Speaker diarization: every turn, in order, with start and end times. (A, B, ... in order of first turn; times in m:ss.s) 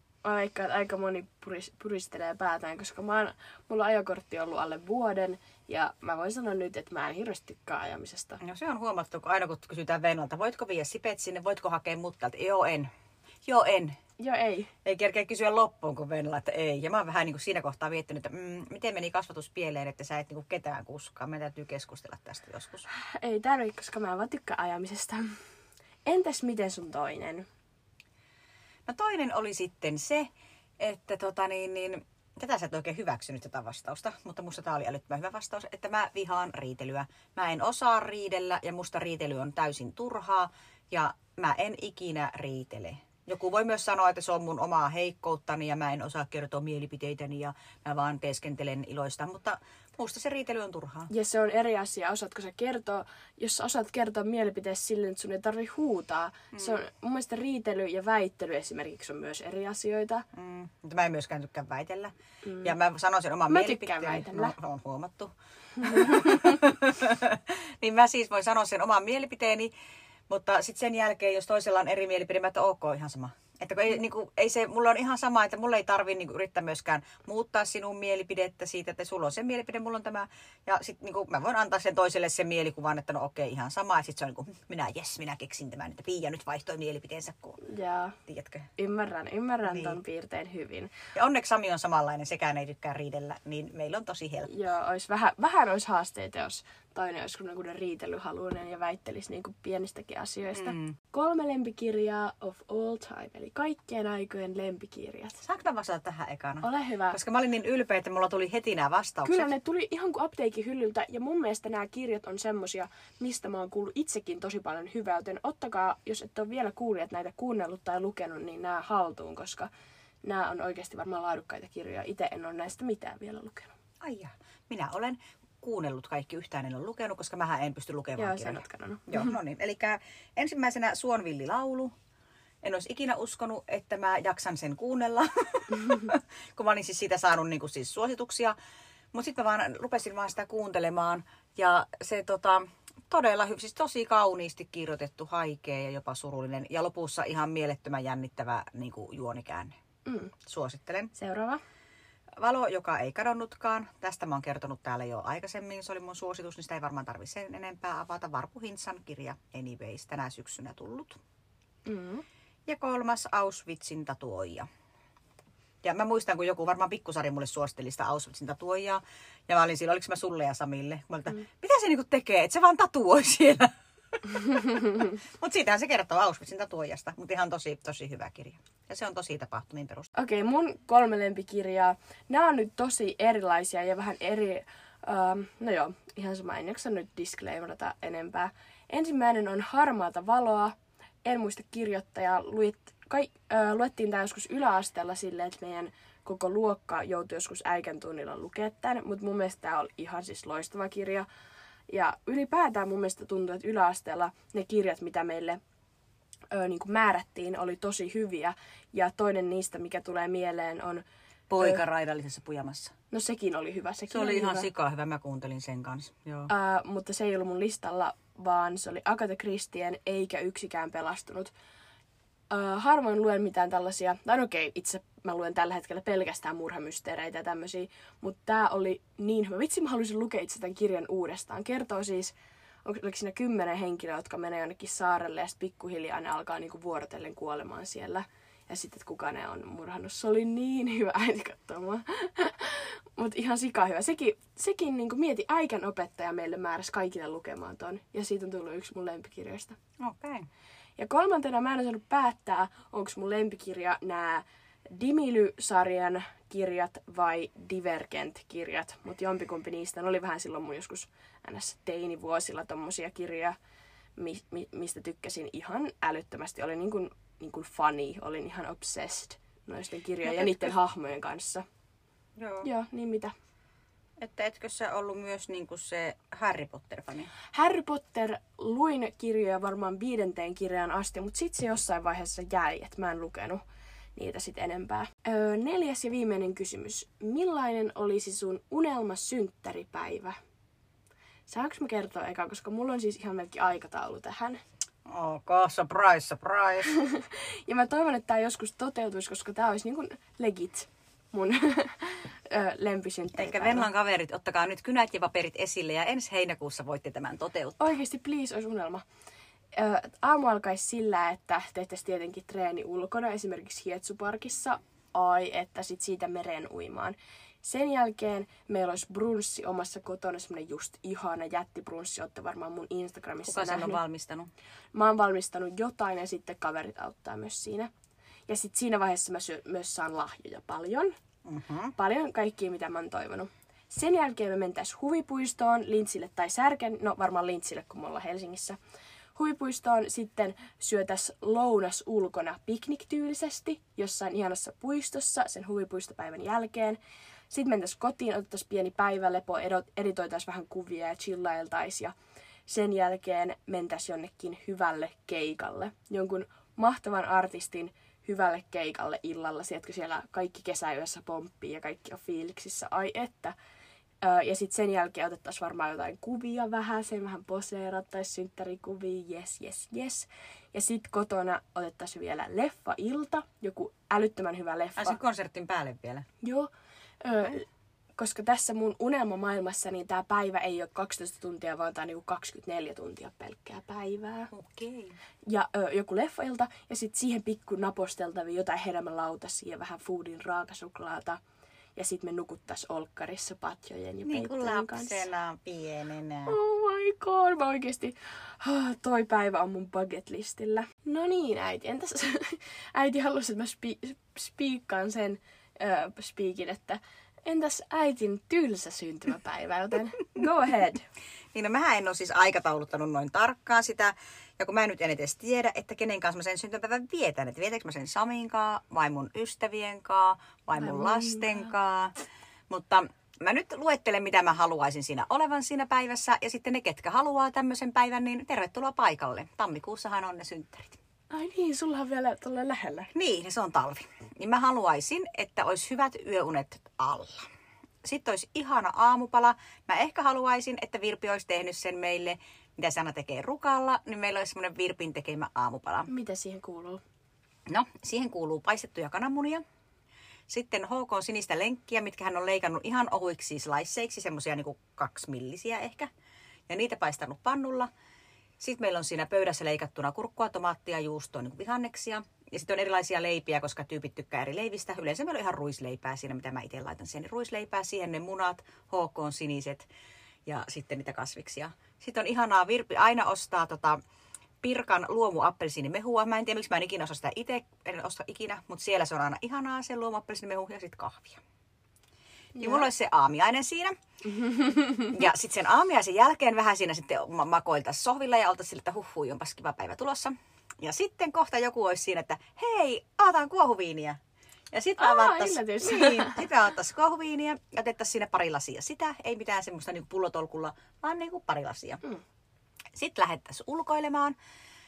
0:00.2-0:08.4 A
0:08.4-0:12.9 B
0:13.4-0:14.0 B
0:14.2-0:14.7 A
0:14.8-0:22.8 B
0:22.9-0:25.4 A
0:26.0-0:27.5 A
0:28.9-0:51.1 B
0:51.1-1:00.2 A
0:56.5-0:56.8 B
1:00.3-1:09.7 B
1:02.4-1:02.7 A
1:03.5-1:04.5 A
1:05.8-1:06.5 A
1:10.3-1:27.6 B
1:27.6-1:28.2 A
1:28.3-1:28.7 B
1:28.8-1:30.9 A
1:29.6-1:30.0 B
1:31.1-1:34.5 B
1:34.5-1:45.4 A
1:40.5-1:41.0 B
1:45.4-1:49.5 B
1:46.6-1:47.2 A
1:49.2-1:59.7 A
2:00.2-2:03.7 A
2:04.0-2:11.9 B
2:08.2-2:09.3 A
2:12.6-2:18.5 B
2:19.1-2:29.7 B
2:30.0-2:30.3 A
2:30.4-2:31.1 B
2:31.1-2:31.6 A
2:32.4-2:41.2 B
2:41.8-2:42.2 A
2:42.7-2:44.7 B
2:45.8-3:00.1 B
2:54.5-2:55.1 A
3:00.2-3:21.3 A
3:21.9-3:25.6 A
3:26.5-3:31.0 A
3:31.5-3:32.9 B
3:33.1-3:34.7 A
3:34.1-3:36.5 B
3:36.5-3:41.5 A
3:42.5-3:52.3 A
3:52.8-4:09.8 A
4:10.0-4:10.5 B
4:11.0-4:23.6 A
4:24.2-4:31.6 A
4:30.2-4:30.7 B
4:32.4-4:32.7 B
4:32.6-4:33.3 A
4:34.2-4:37.3 B
4:37.5-4:43.6 A
4:44.2-4:50.4 A
4:51.5-4:54.6 A
4:55.1-4:56.9 B
4:56.9-5:03.9 A
5:03.3-5:07.9 B
5:07.8-5:09.0 A
5:09.7-5:24.0 A
5:23.4-5:24.5 B
5:24.9-5:27.9 A
5:28.5-5:31.1 A
5:31.4-5:31.9 B
5:32.0-5:38.8 A
5:39.3-5:47.0 A
5:47.5-5:52.1 A
5:52.7-6:03.5 A
6:04.2-6:15.2 A
6:15.0-6:16.2 B
6:16.4-6:16.7 A
6:17.2-6:24.5 A
6:24.5-6:25.2 B
6:25.5-6:31.4 A
6:32.0-6:35.3 A
6:34.3-6:36.6 B
6:36.5-6:51.0 A
6:51.5-7:02.1 B
7:00.8-7:01.7 A
7:02.7-7:11.0 B
7:11.3-7:13.1 A
7:13.1-7:17.4 B
7:18.0-7:26.1 B
7:26.1-7:27.0 A
7:27.7-7:29.6 B
7:30.5-7:36.1 B
7:36.7-7:37.9 B
7:38.6-7:49.9 B
7:50.4-7:54.0 B
7:54.6-8:01.4 B
8:02.5-8:02.9 A
8:02.6-8:03.9 B
8:04.3-8:05.1 A
8:05.1-8:14.2 B
8:14.7-8:22.0 B
8:15.0-8:16.4 A
8:22.9-8:24.3 B